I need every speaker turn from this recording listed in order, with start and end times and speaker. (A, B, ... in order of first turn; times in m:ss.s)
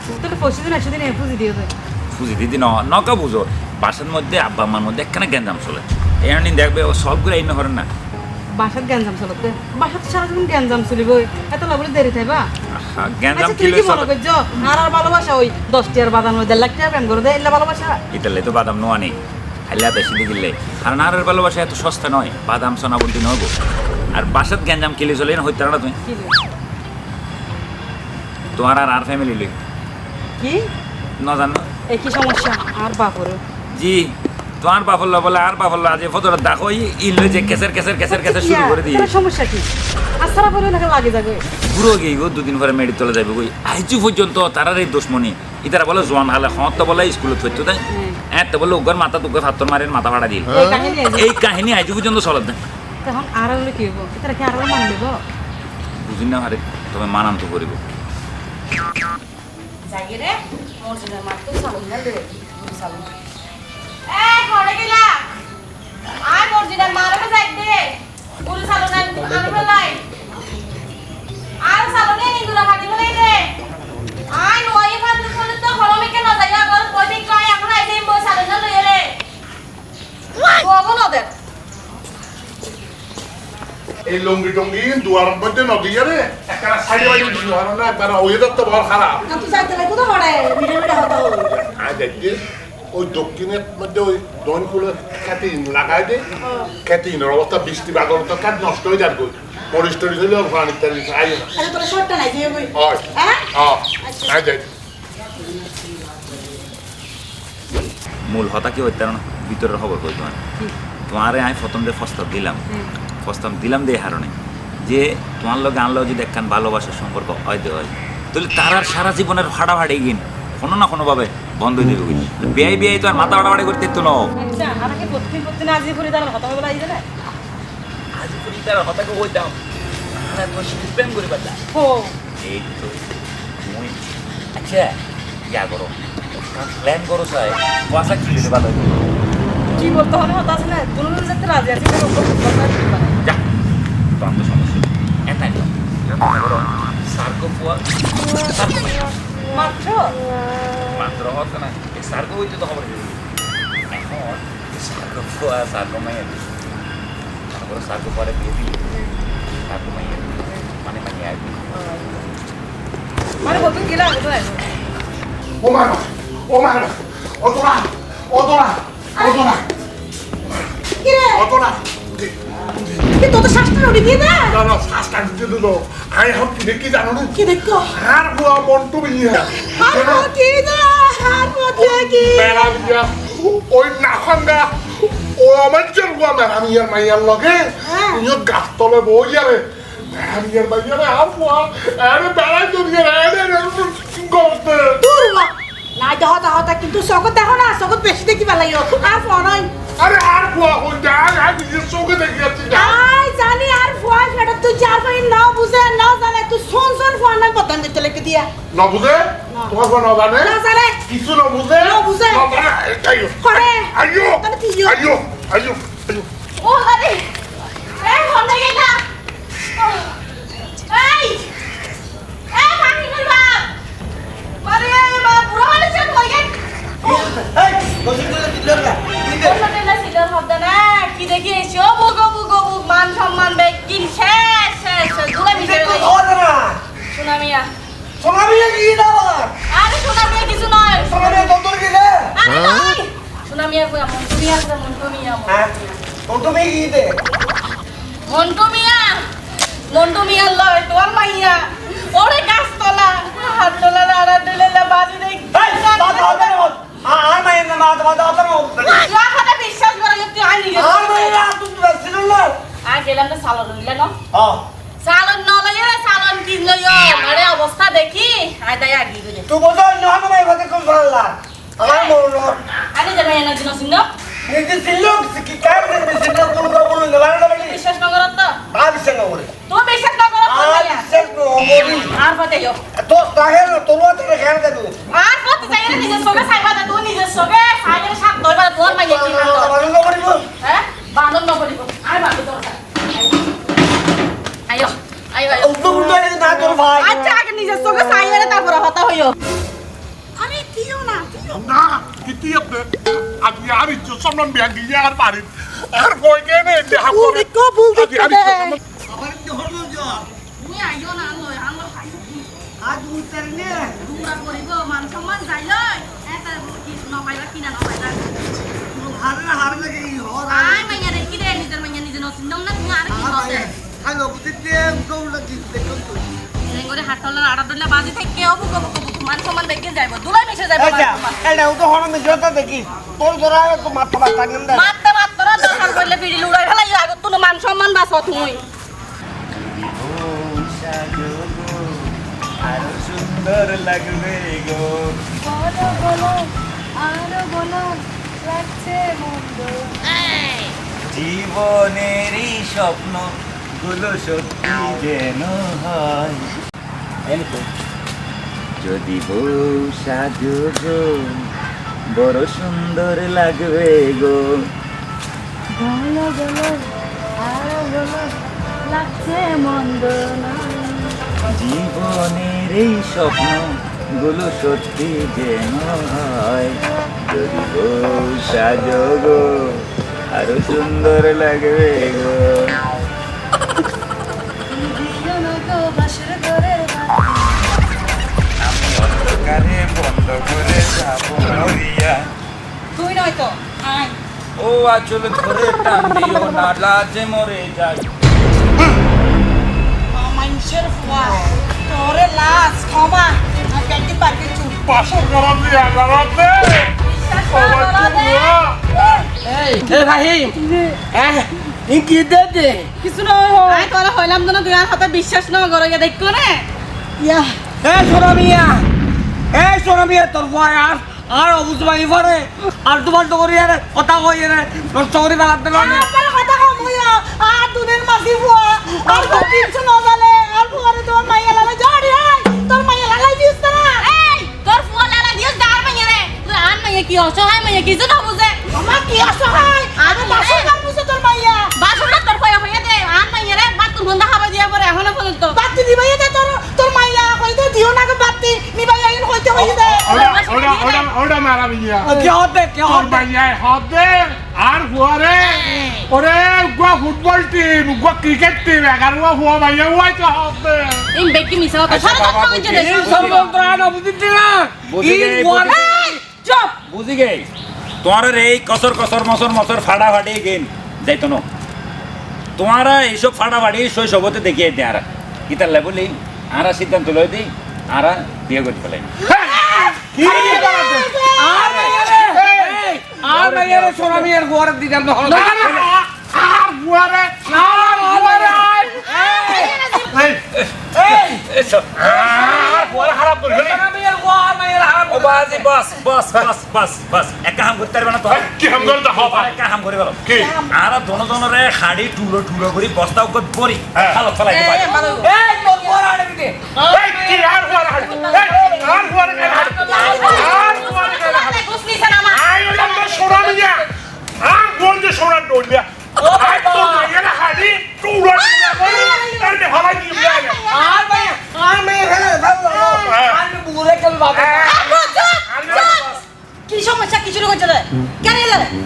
0:00.2-0:01.7 A
0:02.1-0:07.9 B
0:08.6-0:12.4 A
0:12.7-0:14.1 B
0:13.4-0:18.0 A
0:18.1-0:19.2 B
0:19.7-0:23.5 B
0:24.1-0:26.0 B
0:26.0-0:26.3 A
0:28.6-0:29.5 B
0:30.4-0:30.7 A
0:31.2-0:31.7 B
0:31.9-0:33.4 A
0:33.7-0:39.1 B
0:38.1-0:39.7 A
0:40.2-0:41.4 A
0:41.6-0:50.6 B
0:47.9-0:48.2 A
0:50.5-0:51.3 A
0:51.1-0:52.6 B
0:53.0-0:55.2 A
0:56.0-0:57.8 B
0:59.9-1:03.1 C
1:04.1-1:05.2 C
1:06.2-1:10.0 C
1:11.6-1:13.5 C
1:14.3-1:19.2 C
1:20.4-1:21.3 C
1:24.1-1:29.2 D
1:29.3-1:31.5 E
1:31.6-1:32.4 D
1:32.9-1:36.2 D
1:36.4-1:36.7 E
1:36.8-1:41.6 D
1:41.6-1:43.4 E
1:42.7-1:44.7 D
1:44.0-1:44.4 E
1:48.3-1:50.4 B
1:51.1-1:52.6 B
1:53.2-2:04.3 B
2:04.4-2:07.0 A
2:08.2-2:09.6 B
2:10.2-2:11.6 B
2:11.7-2:12.1 A
2:12.4-2:13.0 B
2:13.6-2:14.0 B
2:14.5-2:15.0 B
2:15.5-2:16.0 B
2:16.5-2:19.0 B
2:19.8-2:23.2 A
2:24.2-2:27.8 B
2:28.4-2:29.1 B
2:29.5-2:30.2 A
2:30.9-2:33.2 B
2:33.9-2:36.5 B
2:37.5-2:38.8 B
2:39.7-2:41.7 B
2:41.8-2:42.1 A
2:43.4-2:44.7 A
2:45.6-2:49.7 D
2:49.2-2:49.5 E
2:51.0-2:51.4 E
2:51.3-2:52.4 D
2:53.2-2:54.6 E
2:54.5-2:57.4 D
2:57.3-2:57.9 E
2:57.9-3:00.3 D
2:59.5-3:02.7 E
3:01.8-3:15.0 D
3:07.9-3:08.2 E
3:15.0-3:19.7 E
3:20.0-3:23.0 D
3:22.7-3:28.5 E
3:28.7-3:30.6 D
3:30.4-3:31.0 E
3:31.1-3:33.4 D
3:31.8-3:32.5 E
3:33.4-3:35.0 E
3:33.9-3:36.3 D
3:36.6-3:37.3 C
3:38.0-3:39.0 C
3:40.9-3:41.5 C
3:42.5-3:43.7 C
3:44.6-3:46.6 C
3:47.0-3:49.6 F
3:49.4-3:56.1 C
3:55.5-3:56.8 F
3:57.1-3:57.7 C
3:58.2-3:59.5 F
3:59.7-4:01.5 C
4:00.9-4:02.4 F
4:02.4-4:05.7 C
4:05.5-4:05.7 F
4:06.3-4:07.2 F
4:08.3-4:09.3 C
4:09.9-4:16.6 C
4:15.5-4:19.1 F
4:18.8-4:21.5 C
4:20.7-4:22.6 F
4:22.8-4:24.2 C
4:24.3-4:24.6 F
4:25.0-4:29.5 C
4:29.5-4:32.6 F
4:31.8-4:32.2 C
4:32.9-4:34.1 C
4:34.5-4:37.8 F
4:37.6-4:38.6 C
4:38.7-4:39.5 F
4:39.7-4:41.2 C
4:40.4-4:42.2 F
4:41.7-4:42.8 C
4:43.0-4:44.9 F
4:45.1-4:49.8 C
4:45.8-4:46.4 A
4:48.8-4:50.5 F
4:50.6-4:53.4 C
4:54.7-4:56.0 C
4:55.5-4:57.4 F
4:56.9-4:59.4 C
5:00.4-5:01.6 E
5:01.5-5:08.8 D
5:07.0-5:08.8 E
5:09.1-5:10.3 F
5:10.6-5:12.4 C
5:12.8-5:14.0 F
5:14.0-5:18.5 C
5:18.9-5:21.0 F
5:20.5-5:23.7 C
5:23.1-5:26.2 F
5:26.6-5:31.4 C
5:30.8-5:34.9 F
5:34.7-5:38.6 C
5:39.6-5:45.3 B
5:45.6-5:46.2 A
5:46.0-5:46.3 B
5:47.1-5:47.7 A
5:47.3-5:47.9 B
5:48.5-5:49.5 A
5:51.1-5:56.5 B
5:58.8-6:01.3 B
6:02.1-6:04.5 B
6:05.8-6:06.8 A
6:07.5-6:08.3 A
6:08.9-6:10.9 A
6:11.5-6:13.7 B
6:14.2-6:22.8 B
6:24.7-6:27.8 A
6:28.6-6:32.3 B
6:33.0-6:34.0 A
6:34.6-6:38.1 B
6:40.1-6:44.9 E
6:44.8-6:46.9 D
6:47.0-6:49.0 C
6:47.5-6:48.9 D
6:49.3-6:53.0 F
6:53.0-6:53.7 A
6:53.6-6:53.9 F
6:53.7-6:56.7 C
6:57.2-6:57.5 E
6:57.8-6:58.9 F
6:59.5-7:06.1 F
7:05.7-7:14.0 E
7:14.0-7:18.6 C
7:18.7-7:21.8 E
7:20.0-7:20.7 C
7:21.8-7:25.6 C
7:25.5-7:30.4 E
7:29.5-7:32.1 D
7:30.1-7:31.1 C
7:32.0-7:33.2 F
7:32.8-7:41.1 D
7:41.1-7:43.6 C
7:41.9-7:43.5 B
7:42.7-7:46.2 F
7:44.9-7:46.0 B
7:46.4-7:46.7 C
7:46.8-7:47.5 B
7:48.0-7:51.4 B
7:52.6-7:59.2 B
7:59.2-8:02.8 D
8:00.0-8:05.9 F
8:00.2-8:01.6 E
8:03.4-8:04.2 B
8:05.2-8:09.0 D
8:07.5-8:10.0 F
8:09.6-8:10.1 C
8:10.1-8:10.4 D
8:10.6-8:12.0 B
8:10.9-8:11.4 F
8:12.0-8:13.8 D
8:12.0-8:15.7 F
8:15.1-8:25.0 B
8:18.3-8:19.6 D
8:20.2-8:20.6 D
8:20.4-8:20.7 E
8:24.5-8:25.3 C
8:25.2-8:30.2 F
8:26.9-8:31.6 D
8:29.8-8:30.9 E
8:29.9-8:32.4 C
8:32.3-8:33.9 D
8:33.0-8:33.6 F
8:34.4-8:40.6 D
8:36.2-8:37.1 F
8:38.4-8:39.6 E
8:40.1-8:40.9 E
8:40.7-8:44.9 F
8:42.7-8:43.0 E
8:43.0-8:43.4 D
8:44.3-8:44.9 D
8:44.7-8:46.2 E
8:45.5-8:46.1 D
8:46.7-8:48.7 E